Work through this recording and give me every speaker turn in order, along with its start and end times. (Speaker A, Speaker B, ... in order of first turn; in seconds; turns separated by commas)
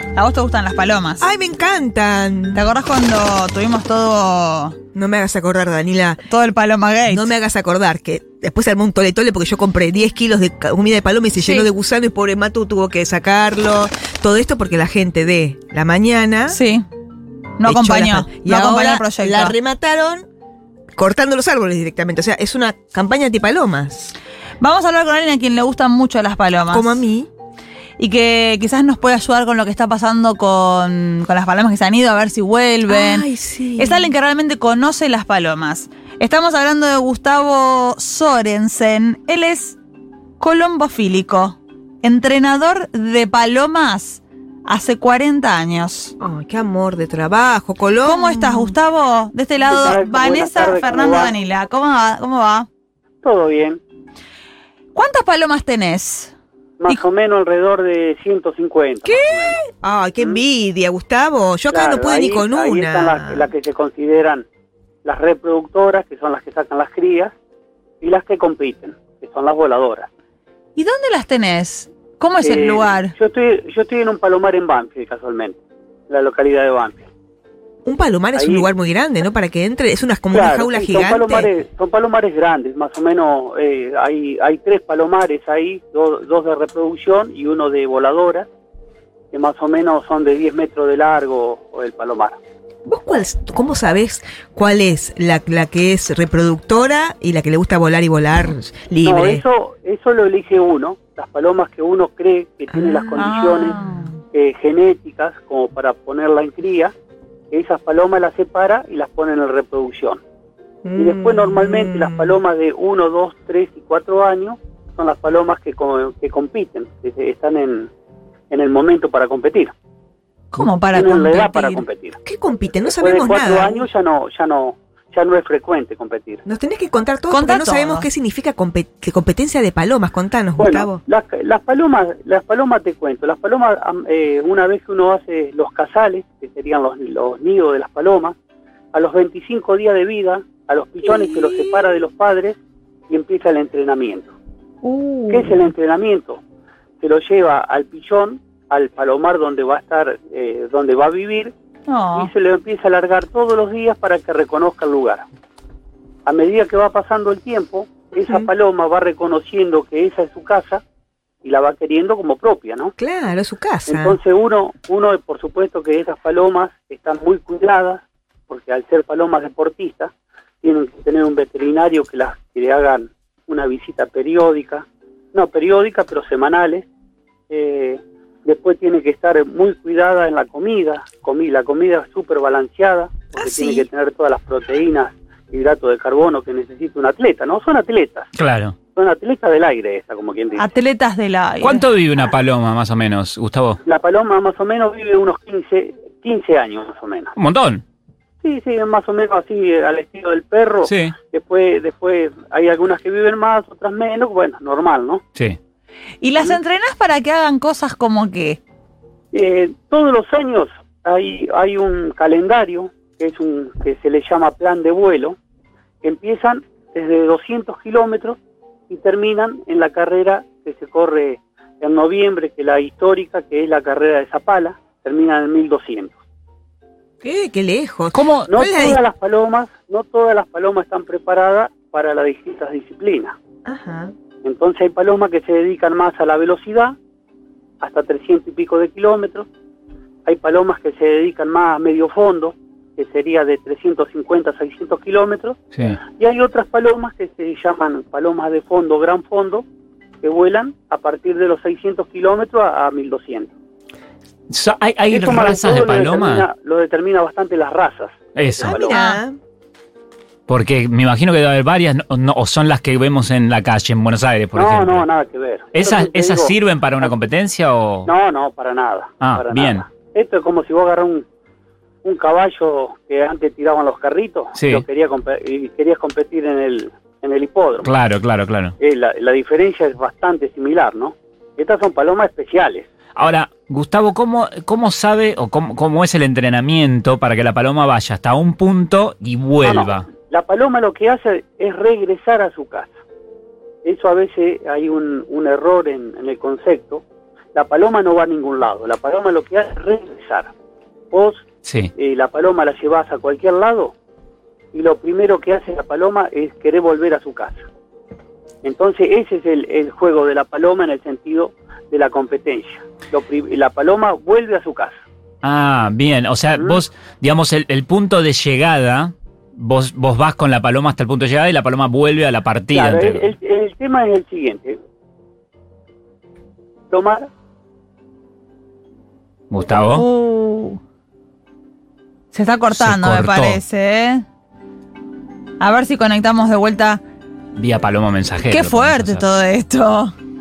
Speaker A: 0.1-1.3, Speaker B: 1.2-2.7, Speaker A: 2.5-4.8, Speaker B: 4.9-6.2, Speaker A: 6.3-7.3, Speaker B: 7.1-16.6, Speaker A: 11.3-11.7, Speaker A: 16.5-16.9, Speaker A: 17.6-19.6, Speaker B: 17.6-20.3, Speaker B: 20.9-24.1, Speaker A: 24.6-27.0, Speaker B: 26.7-27.3, Speaker A: 28.0-39.8, Speaker B: 32.9-34.1, Speaker A: 40.4-46.1, Speaker B: 46.2-48.8, Speaker A: 48.0-52.7, Speaker C: 49.6-51.4, Speaker C: 53.2-53.8, Speaker A: 55.0-56.3, Speaker C: 56.8-59.6, Speaker B: 59.0-63.5, Speaker C: 61.7-64.5, Speaker C: 65.0-67.3, Speaker C: 68.0-70.1, Speaker A: 70.8-73.2, Speaker C: 72.4-77.0, Speaker B: 77.8-81.5, Speaker C: 78.3-78.7, Speaker C: 80.3-88.5, Speaker C: 89.3-92.4, Speaker B: 92.9-99.5, Speaker C: 99.0-103.8, Speaker B: 102.7-103.3, Speaker A: 103.2-104.2, Speaker C: 104.3-106.9, Speaker C: 107.5-110.2, Speaker B: 110.8-112.4, Speaker C: 111.0-117.9, Speaker C: 118.5-119.7, Speaker A: 120.5-121.9, Speaker C: 120.9-122.2, Speaker B: 122.2-123.9, Speaker C: 123.0-126.4, Speaker B: 126.5-131.0, Speaker A: 127.3-128.1, Speaker C: 130.6-138.3, Speaker C: 138.9-142.6, Speaker B: 141.1-141.8, Speaker C: 143.1-144.3, Speaker A: 144.8-145.5, Speaker C: 145.3-146.4, Speaker C: 147.0-151.5, Speaker A: 151.9-152.3, Speaker C: 152.2-155.3, Speaker C: 156.3-160.8, Speaker B: 158.1-158.5, Speaker C: 161.4-162.9, Speaker B: 163.0-164.2, Speaker C: 163.9-176.9, Speaker C: 177.5-188.3, Speaker B: 183.4-183.9, Speaker D: 188.3-188.8, Speaker C: 188.9-190.7, Speaker A: 190.6-191.9, Speaker D: 191.6-193.8, Speaker C: 193.8-197.3, Speaker D: 197.4-197.8, Speaker C: 198.4-205.2, Speaker D: 200.8-201.2, Speaker A: 206.2-208.6, Speaker C: 209.3-215.4, Speaker C: 216.0-226.2, Speaker B: 227.2-229.0, Speaker D: 228.1-228.5, Speaker C: 228.5-233.4, Speaker B: 233.7-234.1, Speaker C: 234.4-237.0, Speaker C: 237.8-239.5, Speaker C: 240.2-249.7, Speaker D: 245.7-246.0, Speaker C: 250.2-253.5, Speaker D: 254.5-256.5, Speaker C: 255.1-259.0, Speaker D: 258.4-259.1, Speaker B: 258.6-259.4, Speaker D: 260.5-265.0, Speaker C: 264.6-266.6, Speaker D: 265.7-268.1, Speaker C: 268.1-271.2, Speaker D: 269.2-269.9, Speaker C: 272.0-277.9, Speaker D: 274.6-274.8, Speaker D: 277.8-278.8, Speaker C: 278.8-282.9, Speaker D: 283.2-290.1, Speaker C: 289.6-292.9, Speaker C: 293.8-300.5, Speaker C: 301.1-301.4, Speaker D: 301.6-301.9, Speaker C: 302.0-303.9, Speaker C: 304.7-307.6, Speaker C: 308.6-315.0, Speaker D: 315.4-323.3, Speaker C: 316.6-316.8, Speaker C: 322.7-324.8, Speaker C: 326.9-327.3, Speaker D: 329.5-330.1, Speaker A: 329.9-330.8, Speaker A: 332.3-334.2, Speaker D: 332.7-333.6, Speaker A: 335.6-337.0, Speaker D: 337.6-339.3, Speaker A: 338.5-340.1